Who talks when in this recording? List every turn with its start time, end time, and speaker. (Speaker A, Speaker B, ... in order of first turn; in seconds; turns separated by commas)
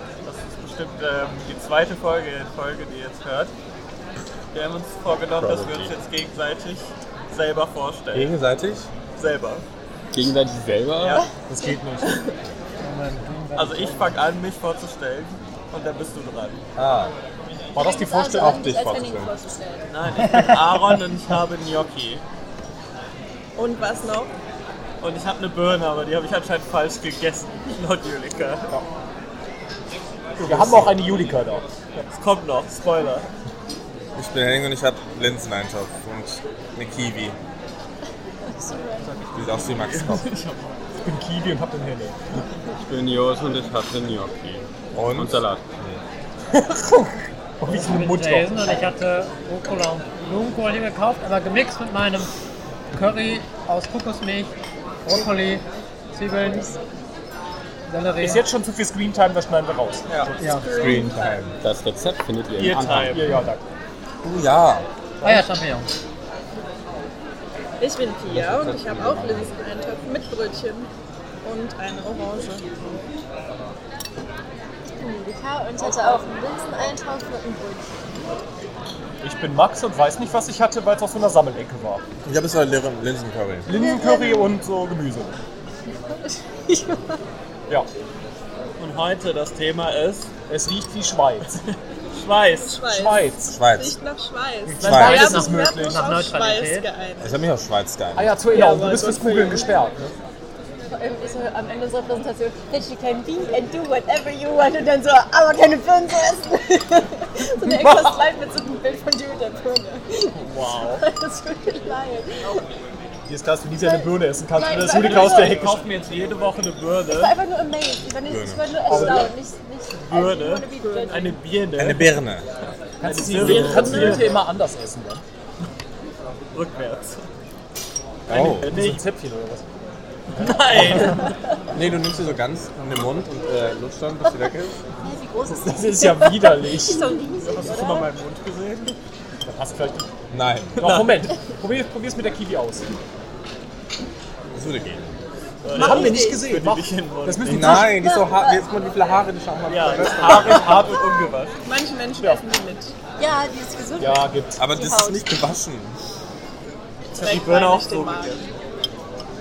Speaker A: 0.2-3.5, Speaker A: 4.5-8.3, Speaker B: 5.3-5.9, Speaker B: 8.1-8.9, Speaker A: 9.2-9.6, Speaker C: 10.1-11.2, Speaker A: 11.0-11.3, Speaker D: 11.5-12.2, Speaker E: 12.0-12.3, Speaker F: 12.8-14.2, Speaker A: 13.5-16.6, Speaker B: 16.8-17.1, Speaker D: 17.7-18.6, Speaker G: 17.7-19.9, Speaker B: 18.3-19.3, Speaker A: 19.9-22.2, Speaker E: 23.6-24.3, Speaker A: 25.0-28.7, Speaker A: 30.4-30.9, Speaker D: 30.4-31.6, Speaker B: 30.7-30.9, Speaker A: 32.1-33.3, Speaker B: 34.1-37.4, Speaker G: 38.4-39.1, Speaker A: 39.0-40.7, Speaker B: 39.3-40.3, Speaker D: 41.0-42.2, Speaker C: 42.7-45.6, Speaker B: 44.9-46.0, Speaker D: 46.5-48.9, Speaker F: 47.7-52.3, Speaker F: 52.9-54.5, Speaker F: 55.0-56.7, Speaker G: 56.4-56.7, Speaker F: 57.9-58.4, Speaker D: 58.2-60.6, Speaker F: 60.4-60.7, Speaker E: 60.4-61.4, Speaker B: 60.6-61.5, Speaker C: 61.6-63.3, Speaker A: 62.5-63.3, Speaker D: 62.9-63.6, Speaker B: 64.2-64.9, Speaker F: 65.2-65.9, Speaker E: 67.8-70.9, Speaker C: 68.3-69.5, Speaker B: 68.5-69.2, Speaker E: 71.4-72.6, Speaker G: 74.8-77.9, Speaker D: 75.8-76.2, Speaker D: 79.2-82.0, Speaker B: 82.2-83.7, Speaker D: 83.7-85.3, Speaker G: 83.7-84.5, Speaker G: 85.9-87.2, Speaker A: 88.8-90.3, Speaker D: 90.5-91.6, Speaker A: 92.1-92.8, Speaker E: 92.6-97.4, Speaker D: 92.8-93.5, Speaker B: 93.5-94.0, Speaker D: 94.7-96.0, Speaker B: 94.8-95.2, Speaker F: 94.8-96.9, Speaker B: 97.2-98.3, Speaker D: 98.1-100.0, Speaker E: 98.4-99.8, Speaker G: 100.9-112.6, Speaker A: 110.4-110.9, Speaker D: 110.5-111.0, Speaker D: 113.3-115.8, Speaker G: 113.8-115.7, Speaker A: 114.9-117.3, Speaker G: 117.1-121.4, Speaker B: 118.2-118.6, Speaker D: 118.8-119.3, Speaker A: 118.9-119.3, Speaker A: 120.0-121.2, Speaker D: 121.1-122.1, Speaker B: 121.8-122.5, Speaker D: 123.0-125.2, Speaker A: 123.0-124.3, Speaker G: 123.4-124.2, Speaker E: 123.4-124.2, Speaker A: 126.5-127.2, Speaker B: 128.3-128.7, Speaker A: 128.3-129.0, Speaker D: 128.3-129.6, Speaker D: 130.3-131.2, Speaker A: 130.3-131.4, Speaker B: 131.7-134.7, Speaker G: 135.0-138.1, Speaker D: 135.5-137.3, Speaker A: 137.4-138.9, Speaker D: 139.4-140.1, Speaker B: 140.3-140.8, Speaker D: 140.8-142.9, Speaker B: 144.5-145.2, Speaker A: 145.6-147.9, Speaker D: 145.7-147.9, Speaker G: 145.7-146.4, Speaker B: 147.4-150.7, Speaker G: 147.8-148.7, Speaker A: 149.7-151.6, Speaker D: 150.2-151.0, Speaker E: 151.6-152.9, Speaker G: 153.2-155.3, Speaker D: 154.0-154.6, Speaker B: 154.6-156.0, Speaker A: 157.1-158.4, Speaker E: 157.2-158.4